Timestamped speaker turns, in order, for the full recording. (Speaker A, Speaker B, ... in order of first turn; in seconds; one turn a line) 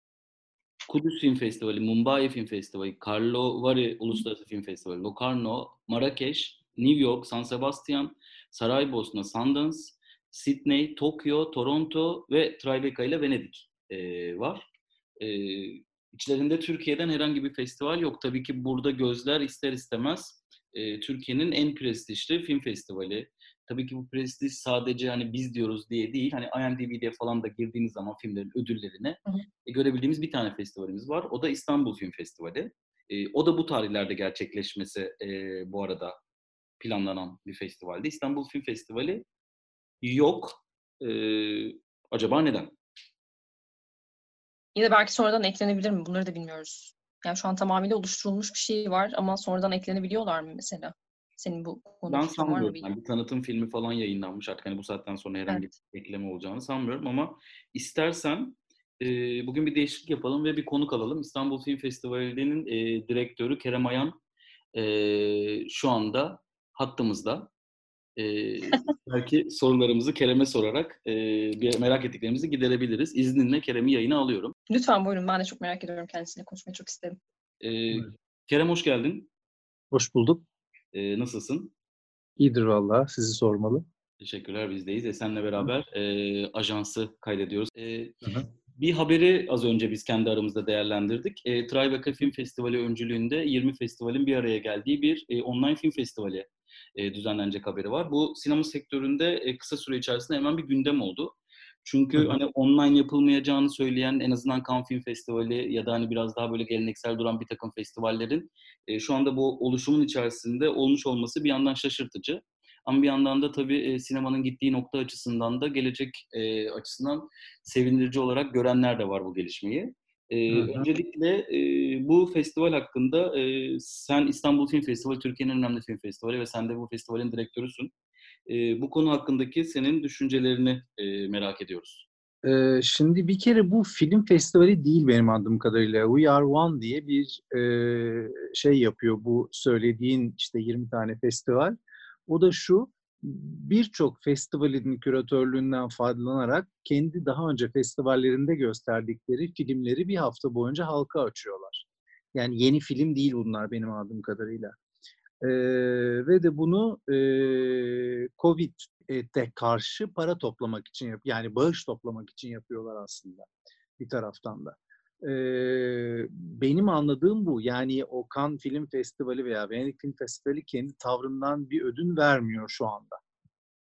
Speaker A: 0.9-14.7
Speaker A: 15.2-36.2
Speaker A: 36.8-39.2
Speaker A: 40.0-42.7
Speaker B: 44.8-52.9
Speaker A: 52.1-64.2
Speaker A: 64.7-67.5
Speaker A: 68.2-74.5
Speaker B: 74.7-77.2
Speaker A: 77.6-79.3
Speaker C: 79.9-80.4
Speaker A: 80.9-81.7
Speaker C: 82.4-83.8
Speaker A: 84.2-127.9
Speaker C: 120.5-120.9
Speaker A: 128.5-132.1
Speaker C: 132.4-141.8
Speaker C: 142.3-154.7
Speaker C: 155.4-173.2